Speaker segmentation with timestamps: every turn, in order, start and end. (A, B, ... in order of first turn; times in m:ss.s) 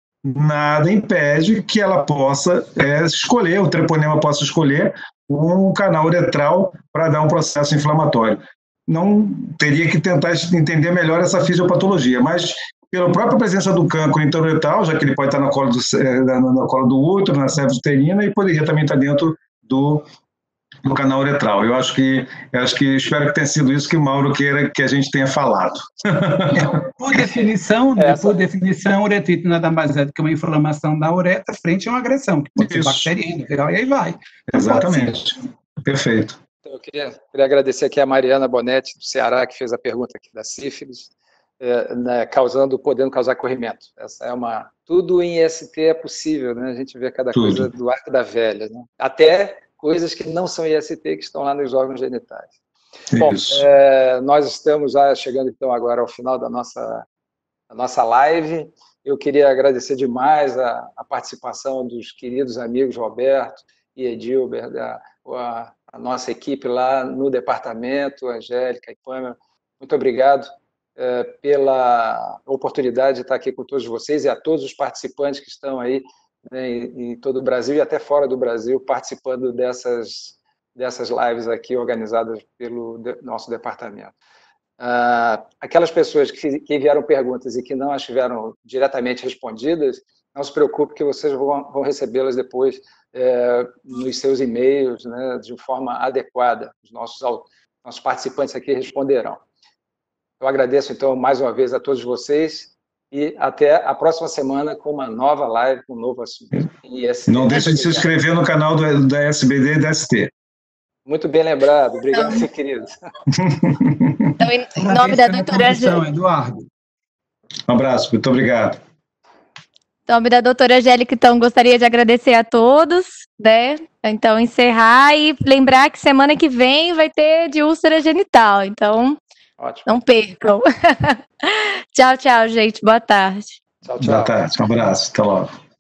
0:00.2-0:20.0 A
0:20.8-0:26.8 A
0:27.0-0:35.2 B
0:28.0-0:28.4 C
0:32.6-0:33.1 A
0:34.5-0:36.4 A
0:36.6-0:52.5 C
0:47.3-0:47.7 A
0:53.1-0:53.6 A
0:53.2-0:57.0 C
0:57.7-1:24.1 C
1:24.8-1:39.4 C
1:40.4-1:48.1 C
1:47.3-1:50.3 A
1:51.1-1:53.0 C
1:52.1-1:52.5 D
1:53.3-1:54.4 A
1:54.4-1:56.0 D
1:54.8-1:56.7 B
1:57.7-1:58.8 A
2:00.1-2:09.2 D
2:09.6-2:09.9 C
2:09.9-2:13.6 D
2:13.8-2:14.4 C
2:14.0-2:15.5 A